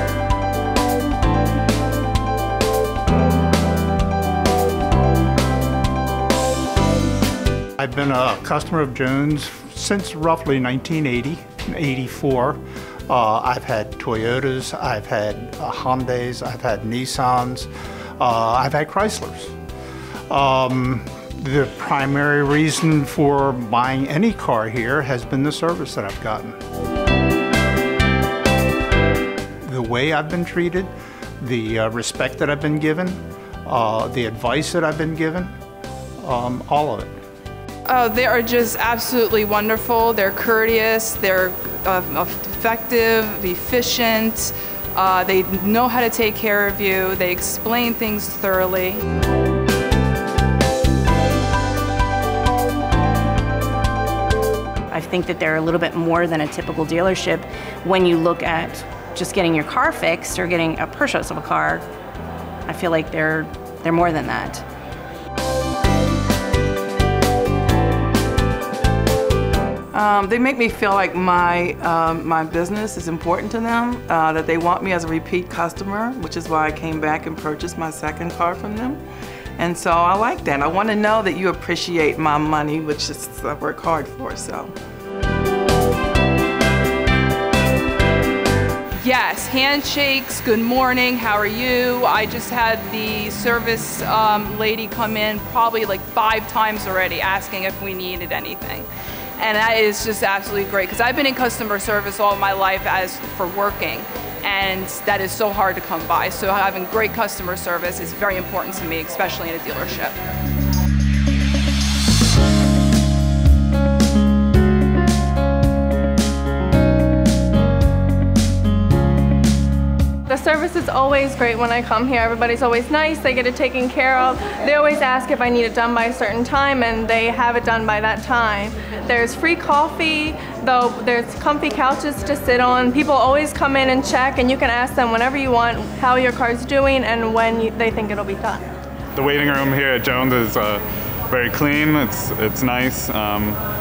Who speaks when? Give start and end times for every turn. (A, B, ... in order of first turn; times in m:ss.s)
0:07.8-0:19.5 A
0:20.3-0:26.6 A
0:29.6-0:35.5 A
0:36.2-0:37.1 A
0:37.9-0:49.0 B
0:54.9-1:01.8 C
1:02.6-1:04.6 C
1:09.9-1:19.0 D
1:19.6-1:24.7 D
1:29.0-1:38.9 B
1:39.4-1:50.2 B
2:00.3-2:18.6 E
2:19.2-2:23.6 F